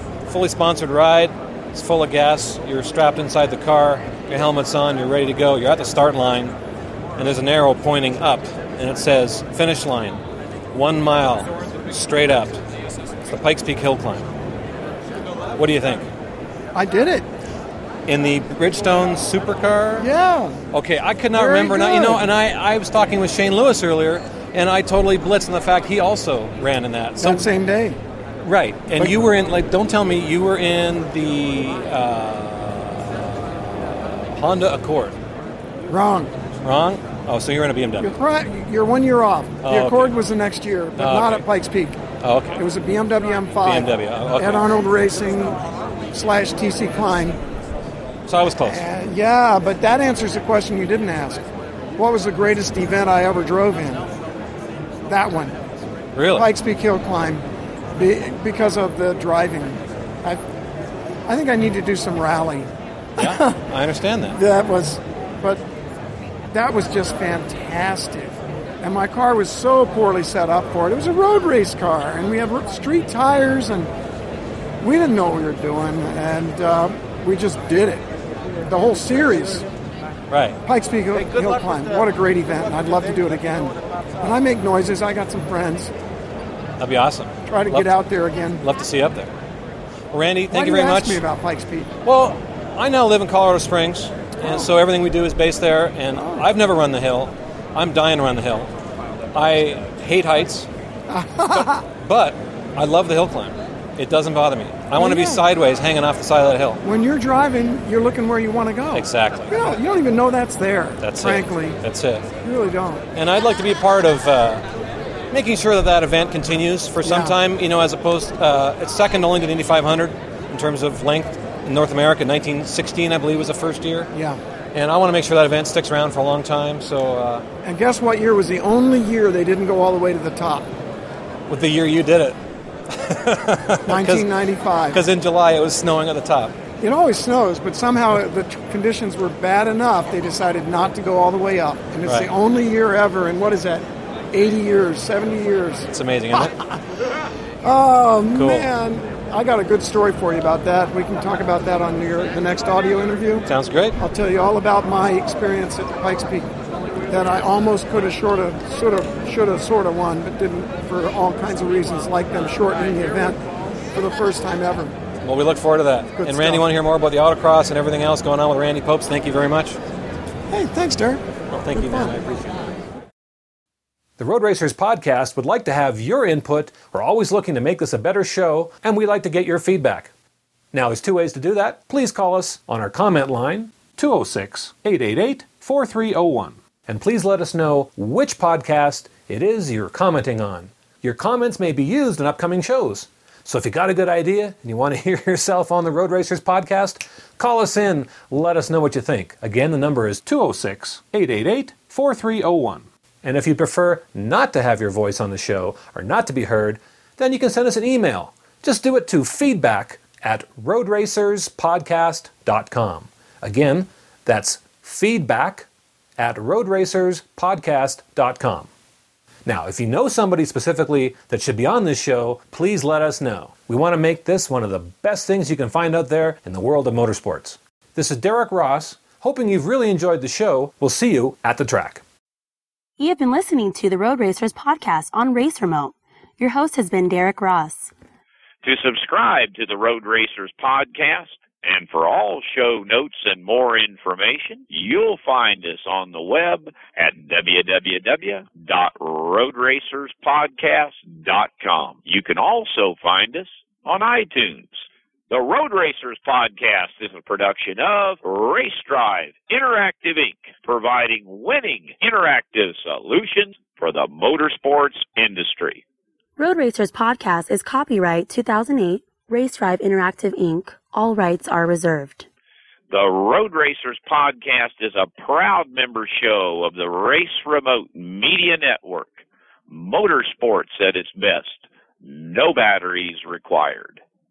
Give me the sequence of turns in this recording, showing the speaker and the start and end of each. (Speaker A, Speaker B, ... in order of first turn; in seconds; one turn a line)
Speaker A: 0.3-6.5
Speaker A: 7.2-12.6
Speaker A: 13.3-14.3
Speaker A: 15.6-16.1
Speaker B: 16.7-17.3
Speaker A: 18.1-20.1
Speaker B: 20.0-20.6
Speaker A: 20.7-27.5
Speaker B: 21.3-22.3
Speaker B: 27.2-28.0
Speaker A: 28.4-35.2
Speaker B: 35.9-36.3
Speaker A: 36.6-38.1
Speaker B: 38.0-42.0
Speaker A: 39.6-40.2
Speaker A: 41.0-41.5
Speaker A: 42.2-42.6
Speaker B: 42.6-47.4
Speaker A: 43.6-44.7
Speaker A: 48.3-48.8
Speaker B: 48.6-51.4
Speaker B: 52.0-54.1
Speaker B: 55.1-55.6
Speaker A: 56.1-56.5
Speaker B: 56.3-60.4
Speaker B: 61.3-63.6
Speaker A: 63.2-64.4
Speaker B: 64.3-65.6
Speaker B: 66.5-73.9
Speaker B: 74.8-78.0
Speaker B: 78.6-79.7
Speaker A: 80.3-80.6
Speaker B: 80.7-85.9
Speaker A: 86.8-88.0
Speaker B: 87.5-88.7
Speaker A: 88.6-89.3
Speaker A: 90.1-91.2
Speaker B: 90.5-91.9
Speaker A: 92.0-98.7
Speaker B: 94.4-94.8
Speaker B: 96.1-96.5
Speaker A: 99.3-100.7
Speaker B: 101.1-101.9
Speaker A: 101.5-106.8
Speaker B: 105.0-105.5
Speaker B: 106.8-111.8
Speaker A: 108.9-109.6
Speaker A: 111.0-112.3
Speaker B: 112.4-113.1
Speaker A: 113.1-114.7
Speaker A: 115.3-124.1
Speaker B: 117.0-117.4
Speaker B: 124.1-124.4
Speaker A: 124.7-127.5
Speaker B: 127.6-130.7
Speaker A: 131.5-136.6
Speaker B: 133.8-135.0
Speaker B: 136.8-146.8
Speaker A: 142.0-142.3
Speaker A: 145.9-146.6
Speaker B: 147.6-156.5
Speaker A: 148.3-148.7
Speaker A: 153.5-154.0
Speaker B: 157.1-163.4
Speaker B: 163.9-164.9
Speaker A: 165.2-169.8
Speaker B: 166.2-166.7
Speaker B: 170.5-172.2
Speaker A: 171.5-172.7
Speaker C: 174.2-180.1
Speaker C: 180.7-218.7
Speaker C: 219.4-232.0
Speaker D: 233.0-237.9
Speaker E: 238.6-265.8
Speaker D: 266.4-272.3
Speaker E: 272.9-284.0